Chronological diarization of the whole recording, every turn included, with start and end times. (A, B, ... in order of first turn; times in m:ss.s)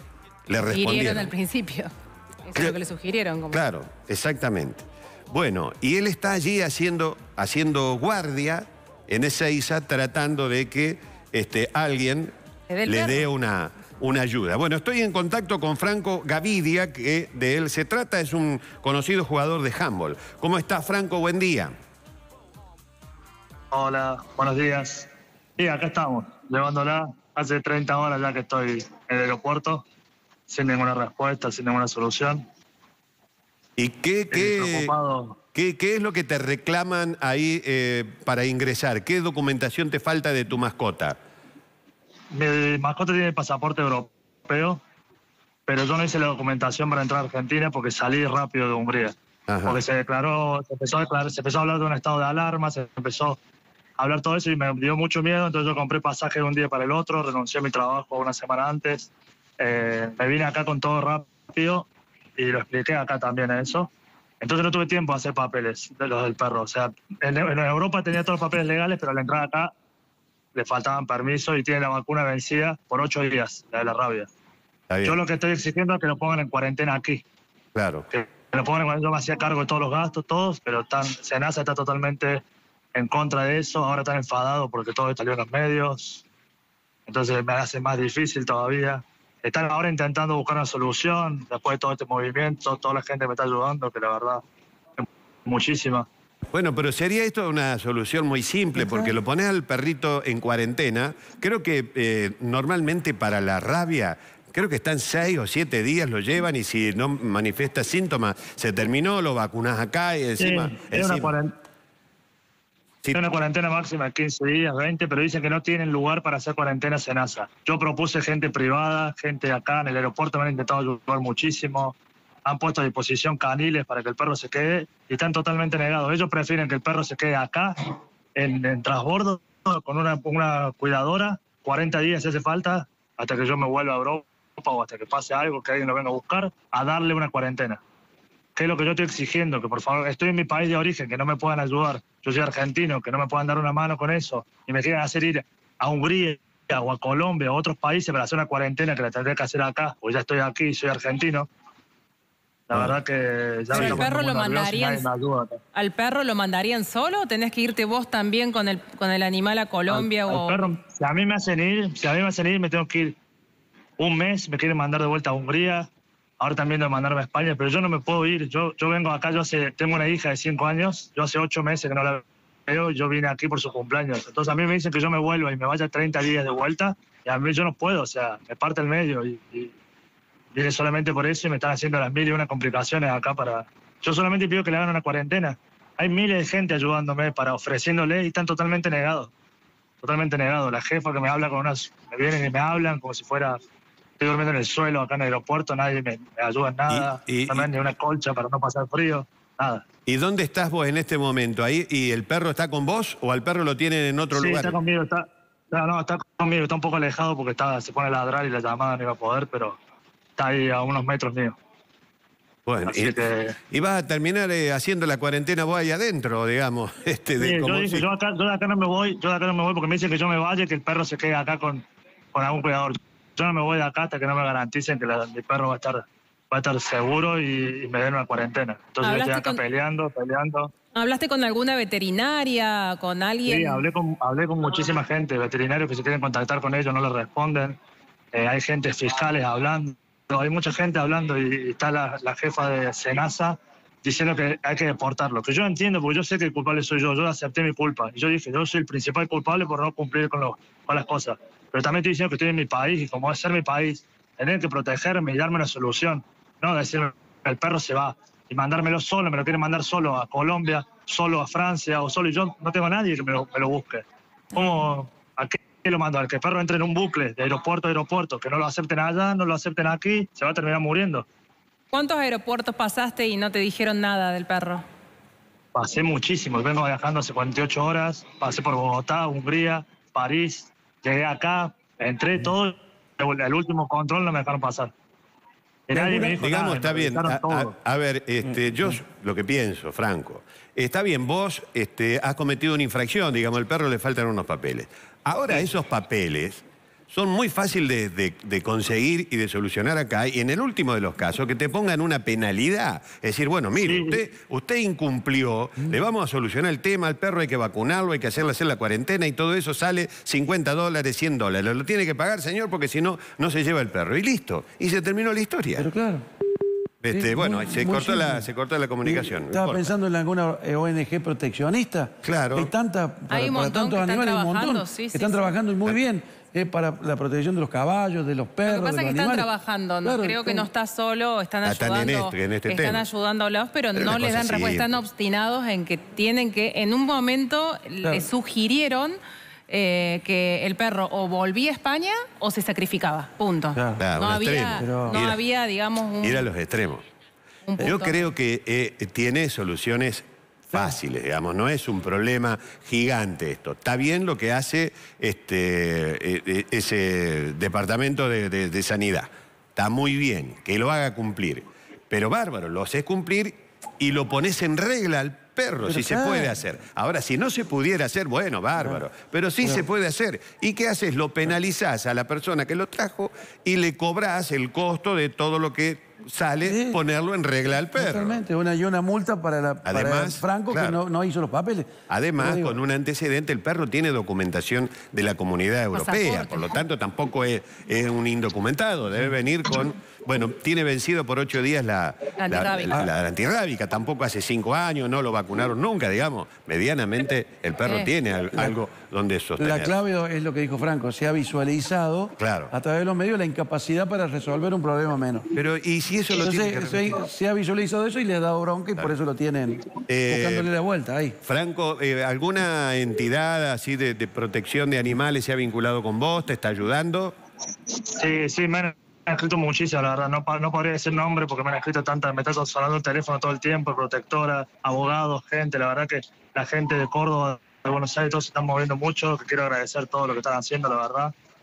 0:00.5-0:01.3 A
0:00.7-0:01.9 B
0:02.4-0:03.6 B
0:03.5-0:12.3 A
0:12.7-0:13.3 B
0:12.8-0:21.7 A
0:23.7-0:29.8 C
0:30.5-0:32.4 C
0:33.8-0:34.9 A
0:34.3-0:35.4 C
0:35.5-0:41.2 A
0:42.3-0:44.8 C
0:45.7-0:49.1 C
0:49.5-0:49.8 A
0:49.6-0:53.4 C
0:54.0-1:03.9 C
1:04.4-1:09.7 C
1:10.5-1:14.3 C
1:14.9-1:15.2 A
1:15.0-1:17.2 C
1:17.7-1:18.1 A
1:18.1-1:22.4 C
1:22.9-1:26.2 C
1:27.1-1:34.4 C
1:35.0-1:36.0 C
1:36.5-1:51.3 A
1:50.4-1:51.5 C
1:53.1-2:17.8 C
2:18.6-2:31.5 C
2:32.7-2:35.6 C
2:32.7-2:33.0 A
2:33.7-2:35.1 B
2:33.7-2:34.0 A
2:35.7-2:40.6 B
2:39.9-2:43.2 C
2:44.0-2:45.9 C
2:46.4-2:59.7 C
3:00.5-3:09.3 C
3:10.0-3:13.6 C
3:14.2-3:19.8 C
3:16.9-3:17.7 A
3:20.0-3:24.8 A
3:24.3-3:29.8 C
3:30.4-3:31.6 C
3:32.6-3:33.2 A
3:32.8-3:33.6 C
3:33.7-3:38.1 A
3:37.4-3:50.7 C
3:49.0-3:49.6 B
3:50.9-3:53.8 B
3:53.5-3:57.8 C
3:58.3-4:31.2 C
4:31.9-4:34.8 B
4:35.7-4:44.9 C
4:45.9-4:47.7 C
4:45.9-4:46.3 D
4:46.4-5:15.9 A
5:03.8-5:04.2 C
5:15.8-5:16.2 D
5:17.0-5:19.9 A
5:17.1-5:18.5 D
5:19.0-5:29.5 D
5:22.2-5:22.7 A
5:23.3-5:25.4 B
5:28.6-5:39.2 B
5:30.0-5:30.7 D
5:31.6-5:33.0 A
5:33.9-5:34.9 A
5:38.0-5:38.3 D
5:39.7-5:46.5 B
5:43.8-5:44.0 D
5:44.0-5:45.4 A
5:44.8-5:45.2 D
5:46.2-5:47.0 A
5:47.7-5:48.3 B
5:47.8-6:18.4 A
6:05.8-6:06.6 D
6:16.6-6:17.0 D
6:17.9-6:22.8 D
6:19.8-6:21.0 A
6:22.1-6:39.9 A
6:25.9-6:26.7 B
6:32.4-6:33.0 B
6:37.8-6:38.1 B
6:39.6-6:45.5 D
6:42.4-6:42.7 A
6:45.5-6:47.2 A
6:46.3-6:51.4 D
6:50.1-6:50.7 A
6:51.4-6:57.3 A
6:58.1-7:11.3 C